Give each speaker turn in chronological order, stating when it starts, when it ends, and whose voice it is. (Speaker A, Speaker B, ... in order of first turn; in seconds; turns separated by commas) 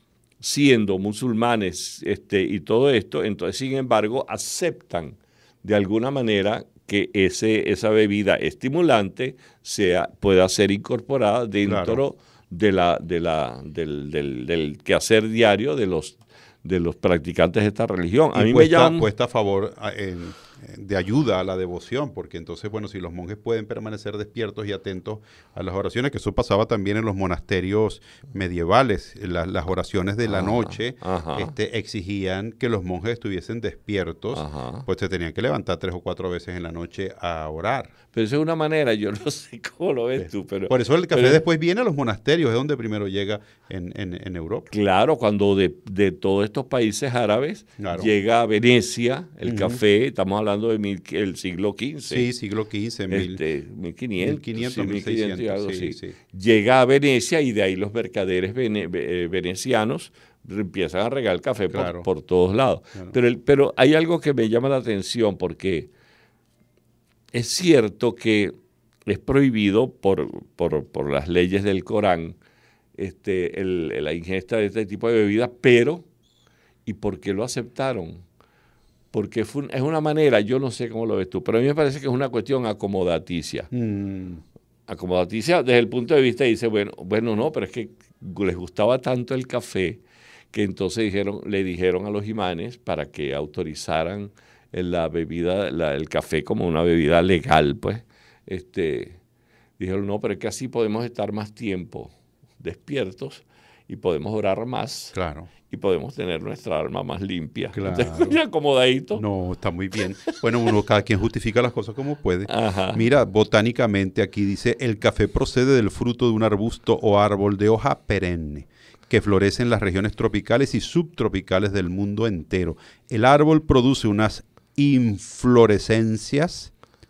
Speaker A: 0.4-19.1, Speaker B: 11.7-12.0, Speaker B: 18.3-37.9, Speaker A: 30.3-31.5, Speaker A: 34.3-34.9, Speaker A: 38.1-41.4, Speaker B: 40.2-44.7, Speaker A: 44.7-52.3, Speaker B: 47.8-48.1, Speaker B: 49.4-49.8, Speaker B: 52.1-53.4, Speaker A: 53.1-65.9, Speaker B: 54.2-56.2, Speaker B: 61.7-62.1, Speaker A: 67.3-72.4, Speaker A: 73.0-76.1, Speaker A: 76.9-78.2, Speaker A: 79.1-83.7, Speaker B: 83.7-84.4, Speaker A: 84.9-99.2, Speaker A: 99.8-105.2, Speaker B: 105.1-105.5, Speaker A: 105.7-109.2, Speaker B: 107.7-108.4, Speaker B: 109.2-126.7, Speaker A: 112.5-113.0